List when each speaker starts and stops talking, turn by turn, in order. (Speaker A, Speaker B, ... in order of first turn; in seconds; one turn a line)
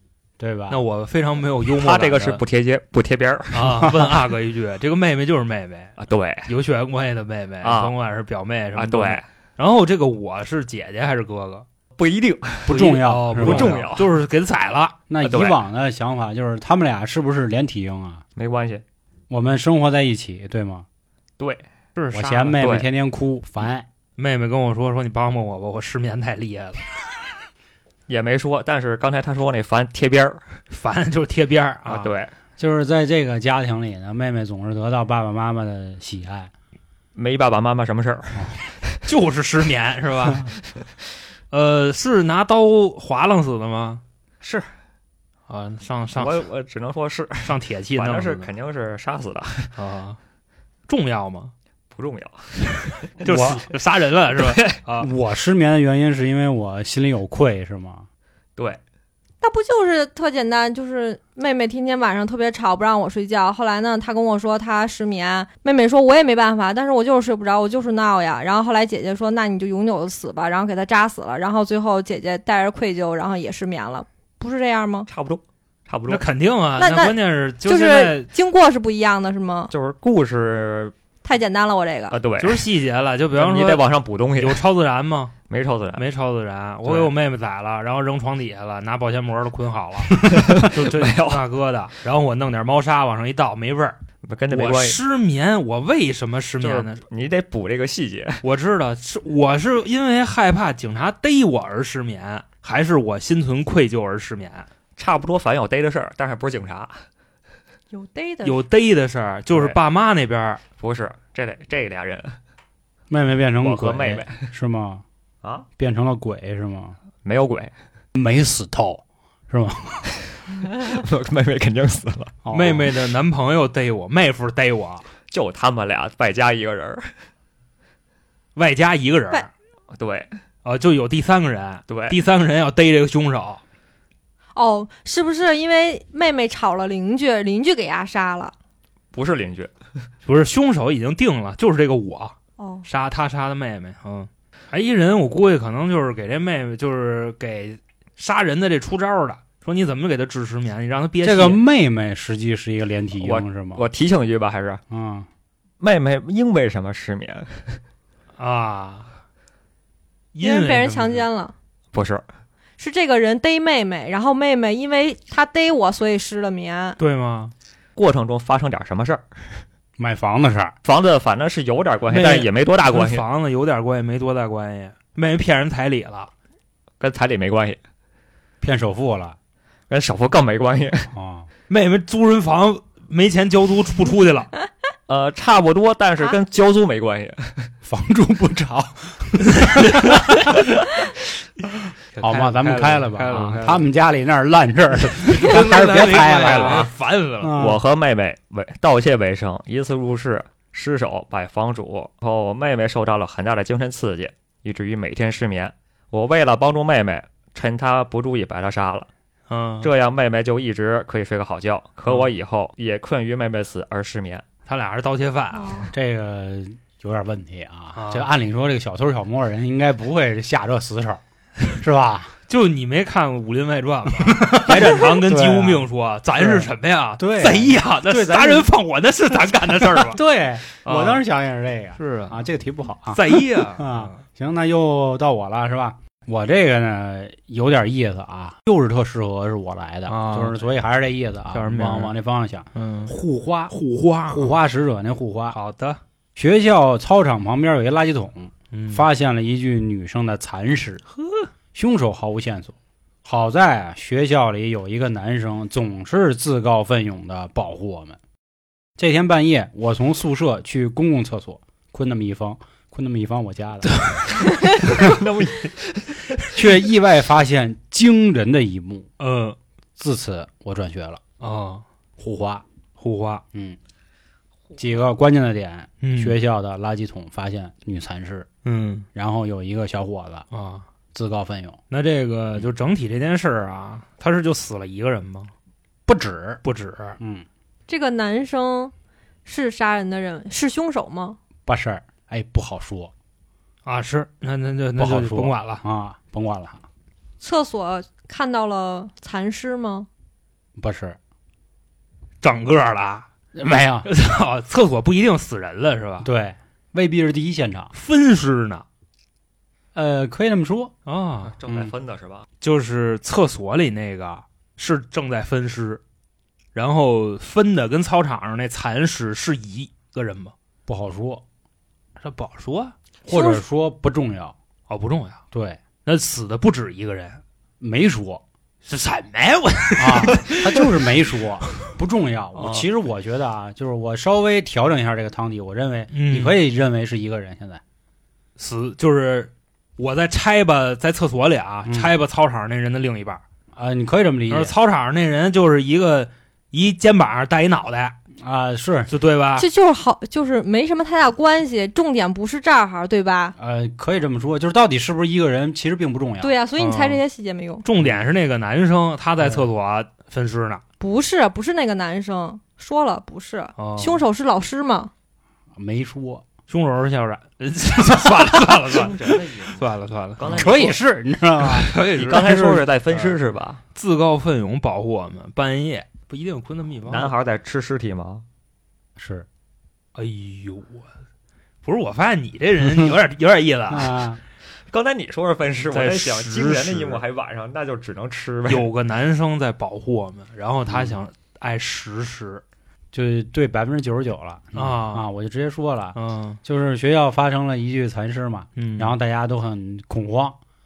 Speaker A: 0.4-0.8
Speaker B: 0.7-2.4
Speaker C: 1.7-3.8
Speaker B: 3.5-5.9
Speaker C: 6.0-6.5
Speaker B: 6.5-11.6
Speaker C: 7.6-7.9
Speaker C: 8.7-9.2
Speaker C: 12.0-14.1
Speaker A: 12.7-13.8
Speaker B: 12.7-15.0
Speaker A: 15.1-18.2
Speaker C: 15.2-15.6
Speaker C: 18.4-18.8
Speaker A: 19.3-20.9
Speaker C: 21.4-21.6
Speaker B: 21.9-22.6
Speaker A: 22.1-23.9
Speaker C: 22.6-22.9
Speaker B: 24.2-26.9
Speaker C: 28.1-30.4
Speaker B: 30.7-32.1
Speaker C: 31.9-32.3
Speaker A: 32.6-36.5
Speaker C: 37.1-38.9
Speaker B: 39.0-40.5
Speaker B: 41.5-44.0
Speaker C: 44.4-44.7
Speaker B: 45.5-46.4
Speaker C: 46.1-49.7
Speaker B: 47.4-48.5
Speaker B: 49.7-50.2
Speaker B: 50.9-51.5
Speaker C: 51.9-52.9
Speaker B: 53.2-55.1
Speaker A: 53.2-53.6
Speaker C: 54.3-54.8
Speaker A: 55.0-58.0
Speaker D: 59.4-75.1
Speaker C: 75.1-76.2
Speaker B: 76.1-78.3
Speaker D: 76.8-79.7
Speaker C: 79.7-80.9
Speaker D: 81.2-82.2
Speaker C: 82.1-82.7
Speaker B: 82.4-83.8
Speaker C: 83.3-84.6
Speaker B: 84.3-85.3
Speaker C: 85.5-86.0
Speaker B: 86.0-94.0
Speaker C: 86.8-87.1
Speaker C: 90.2-91.4
Speaker C: 94.2-95.0
Speaker B: 94.5-97.0
Speaker C: 96.6-98.4
Speaker B: 98.4-104.7
Speaker C: 105.0-107.0
Speaker D: 107.9-108.6
Speaker B: 108.4-110.6
Speaker C: 109.5-109.8
Speaker C: 110.8-112.4
Speaker A: 113.1-115.0
Speaker C: 113.6-114.5
Speaker A: 115.8-117.0
Speaker C: 117.2-117.7
Speaker A: 118.1-120.2
Speaker C: 120.8-122.4
Speaker A: 122.4-122.9
Speaker B: 122.5-125.0
Speaker C: 125.3-127.1
Speaker B: 128.6-129.5
Speaker C: 129.9-130.3
Speaker B: 130.6-133.6
Speaker C: 131.9-132.2
Speaker D: 134.5-138.5
Speaker C: 139.1-139.7
Speaker B: 140.2-142.3
Speaker D: 142.6-142.8
Speaker B: 142.8-151.6
Speaker A: 151.2-153.8
Speaker C: 153.2-154.8
Speaker A: 154.9-155.3
Speaker C: 155.8-157.8
Speaker B: 158.4-159.1
Speaker B: 160.3-161.2
Speaker D: 160.4-161.5
Speaker C: 161.9-162.2
Speaker D: 162.8-167.0
Speaker B: 167.0-167.5
Speaker C: 167.9-169.6
Speaker A: 170.0-170.7
Speaker C: 170.8-173.2
Speaker B: 172.1-176.3
Speaker C: 177.0-177.8
Speaker A: 178.6-179.3
Speaker C: 179.9-181.1
Speaker A: 181.1-181.5
Speaker B: 181.7-184.5
Speaker C: 185.1-187.7
Speaker A: 187.8-190.4
Speaker B: 192.1-193.9
Speaker A: 192.2-197.8
Speaker B: 195.2-197.6
Speaker C: 196.1-196.9
Speaker C: 197.5-209.1
Speaker B: 209.5-209.9
Speaker C: 209.8-214.4
Speaker B: 214.7-215.8
Speaker D: 215.6-215.9
Speaker A: 215.9-221.2
Speaker B: 217.9-218.3
Speaker A: 221.7-222.3
Speaker B: 222.5-230.2
Speaker A: 224.2-228.7
Speaker A: 229.8-243.7
Speaker B: 230.8-231.2
Speaker B: 232.0-232.4
Speaker B: 233.1-234.2
Speaker B: 240.1-240.6
Speaker B: 241.5-242.1
Speaker B: 242.7-243.2
Speaker B: 243.7-244.5
Speaker A: 244.3-245.6
Speaker B: 245.5-246.0
Speaker A: 246.3-251.0
Speaker B: 248.7-249.0
Speaker B: 251.2-251.5
Speaker A: 251.7-252.7
Speaker A: 253.2-258.2
Speaker A: 259.0-264.0
Speaker C: 264.4-266.4
Speaker A: 264.8-265.2
Speaker A: 266.5-269.1
Speaker B: 269.2-269.6
Speaker A: 270.0-271.2
Speaker B: 271.4-271.8
Speaker A: 272.2-272.6
Speaker B: 273.0-273.4
Speaker A: 273.5-273.8
Speaker A: 274.8-278.5
Speaker B: 276.0-276.4
Speaker B: 278.6-279.1
Speaker A: 279.1-280.4
Speaker B: 280.5-280.8
Speaker A: 281.1-281.8
Speaker B: 281.9-285.5
Speaker A: 286.1-286.6
Speaker B: 286.6-287.2
Speaker A: 287.2-287.4
Speaker D: 287.9-288.9
Speaker D: 289.4-291.4
Speaker A: 291.6-293.1
Speaker B: 293.8-295.8
Speaker A: 295.0-296.8
Speaker D: 297.4-300.1
Speaker A: 300.8-301.2
Speaker B: 302.4-303.3
Speaker A: 303.5-304.1
Speaker B: 304.1-306.3
Speaker A: 306.2-307.9
Speaker B: 307.9-308.8
Speaker A: 309.9-310.9
Speaker B: 311.1-311.5
Speaker C: 311.4-312.5
Speaker A: 311.6-311.9
Speaker B: 312.6-316.0
Speaker B: 316.7-320.5
Speaker A: 320.9-321.4
Speaker B: 322.2-322.9
Speaker A: 323.2-324.5
Speaker D: 323.3-323.6
Speaker B: 324.9-325.4
Speaker A: 325.5-325.8
Speaker B: 326.1-327.4
Speaker A: 327.8-328.4
Speaker B: 328.8-330.9
Speaker A: 330.0-337.8
Speaker B: 332.6-332.9
Speaker B: 336.1-336.6
Speaker B: 338.6-343.4
Speaker A: 341.8-342.1
Speaker A: 343.7-344.7
Speaker B: 344.5-348.1
Speaker A: 348.4-349.1
Speaker B: 349.1-349.7
Speaker D: 349.6-353.5
Speaker A: 353.6-356.5
Speaker D: 356.4-357.8
Speaker B: 356.8-357.2
Speaker B: 357.8-360.8
Speaker A: 357.9-358.2
Speaker A: 359.4-359.6
Speaker D: 361.0-365.1
Speaker B: 363.8-364.2
Speaker A: 365.8-366.4
Speaker B: 366.7-370.9
Speaker C: 368.8-369.9
Speaker C: 370.4-371.0
Speaker A: 370.5-372.9
Speaker B: 371.6-372.6
Speaker C: 372.1-373.8
Speaker B: 373.9-377.3
Speaker C: 377.1-378.4
Speaker A: 379.2-379.5
Speaker B: 380.1-381.1
Speaker B: 381.8-384.2
Speaker A: 383.9-384.4
Speaker C: 384.9-388.9
Speaker B: 385.9-387.2
Speaker B: 388.7-392.6
Speaker A: 390.9-391.2
Speaker A: 393.1-400.6
Speaker B: 394.7-395.3
Speaker B: 396.1-396.6
Speaker B: 398.8-399.1